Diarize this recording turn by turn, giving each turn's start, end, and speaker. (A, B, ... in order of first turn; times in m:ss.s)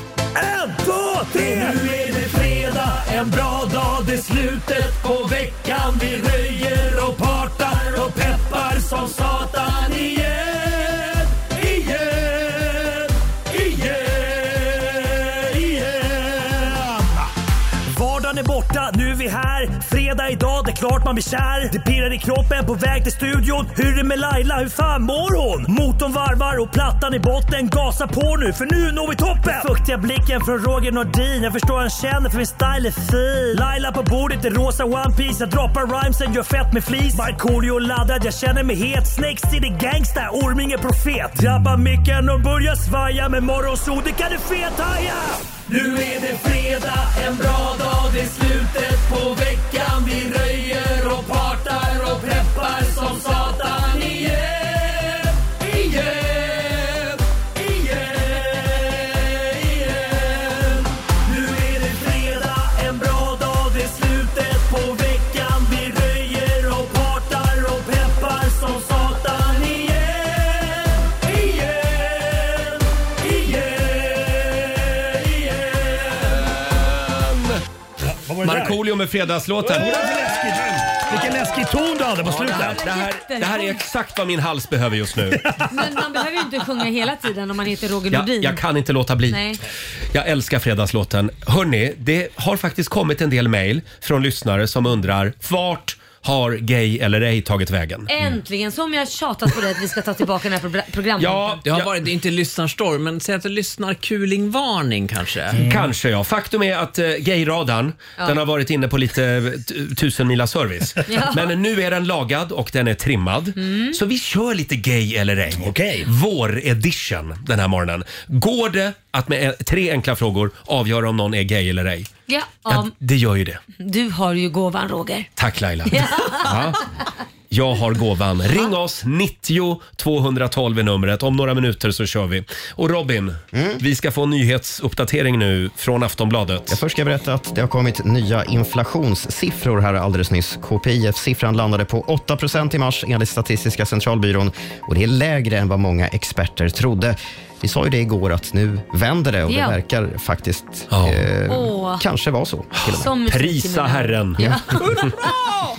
0:00.4-0:17.3 A
0:17.9-1:16.5 A
1:17.1-1:17.6 B
1:18.0-1:18.8 A
1:18.4-1:20.2 B
1:19.6-1:22.8 A
1:22.2-1:25.4 B
1:22.4-1:23.8 C
1:25.7-1:28.6 C
1:28.1-1:29.4 B
1:29.3-1:29.6 C
1:30.1-1:38.1 B
1:38.1-1:41.6 C
1:41.2-1:41.9 B
1:41.6-1:45.6 D
1:45.5-2:02.1 B
1:45.6-1:45.9 A
1:51.1-1:51.5 C
1:53.6-1:54.0 C
1:55.5-1:56.1 A
2:02.3-2:02.9 C
2:02.7-2:03.6 B
2:03.8-2:05.3 C
2:05.4-2:06.8 B
2:05.9-2:06.5 C
2:07.5-2:16.8 B
2:13.5-2:13.8 E
2:16.7-2:33.1 E
2:29.5-2:29.8 C
2:30.9-2:31.2 B
2:31.5-2:32.0 C
2:32.8-2:34.4 B
2:32.9-2:35.3 C
2:34.4-2:35.1 E